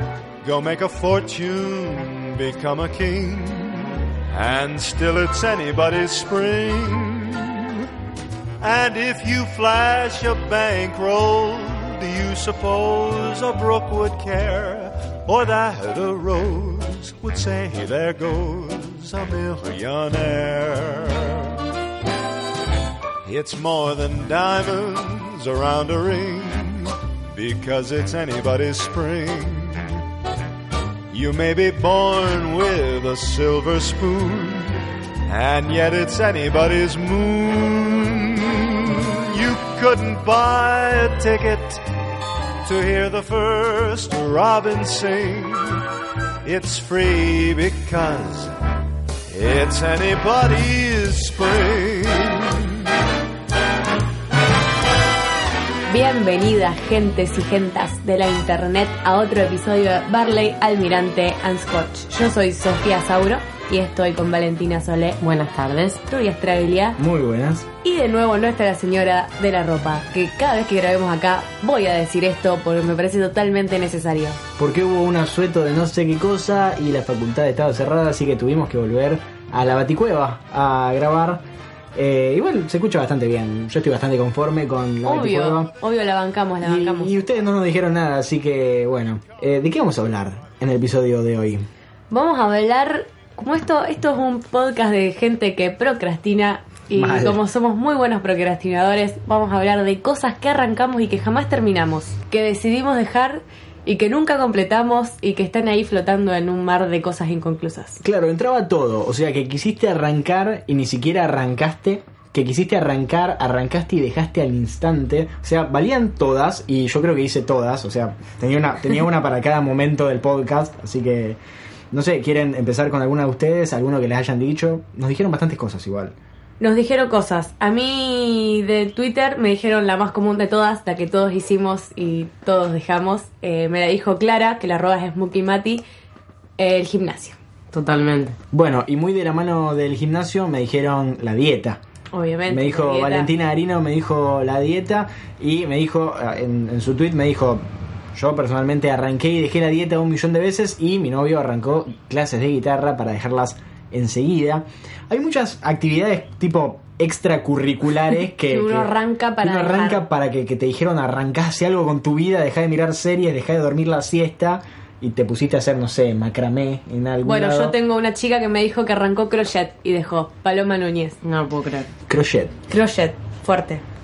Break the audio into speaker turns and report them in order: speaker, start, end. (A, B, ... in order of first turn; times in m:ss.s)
0:00.4-0:07.9 A
0:08.6-0:21.5 A
0:23.2-0:30.0 A
0:31.1-0:41.9 A
0:42.6-0:45.8 A
0:46.4-0:48.5 A
0:49.3-0:52.8 A
0:55.9-1:05.2 B
1:05.2-1:06.0 C
1:06.1-1:07.0 B
1:07.0-1:07.7 D
1:07.8-1:14.4 B
1:14.6-1:21.4 D
1:21.9-1:25.7 D
1:25.0-1:27.2 B
1:26.6-1:31.7 D
1:32.1-1:48.0 B
1:36.9-1:37.4 D
1:48.0-2:01.4 D
2:01.9-2:06.1 D
2:06.6-2:15.8 B
2:16.6-2:17.4 B
2:17.7-2:18.4 C
2:18.5-2:21.8 D
2:22.1-2:23.3 B
2:22.5-2:27.6 D
2:28.1-2:47.8 D
2:38.5-2:40.0 B
2:47.2-2:51.2 B
2:51.2-2:51.9 C
2:52.1-2:52.5 D
2:52.7-2:53.8 B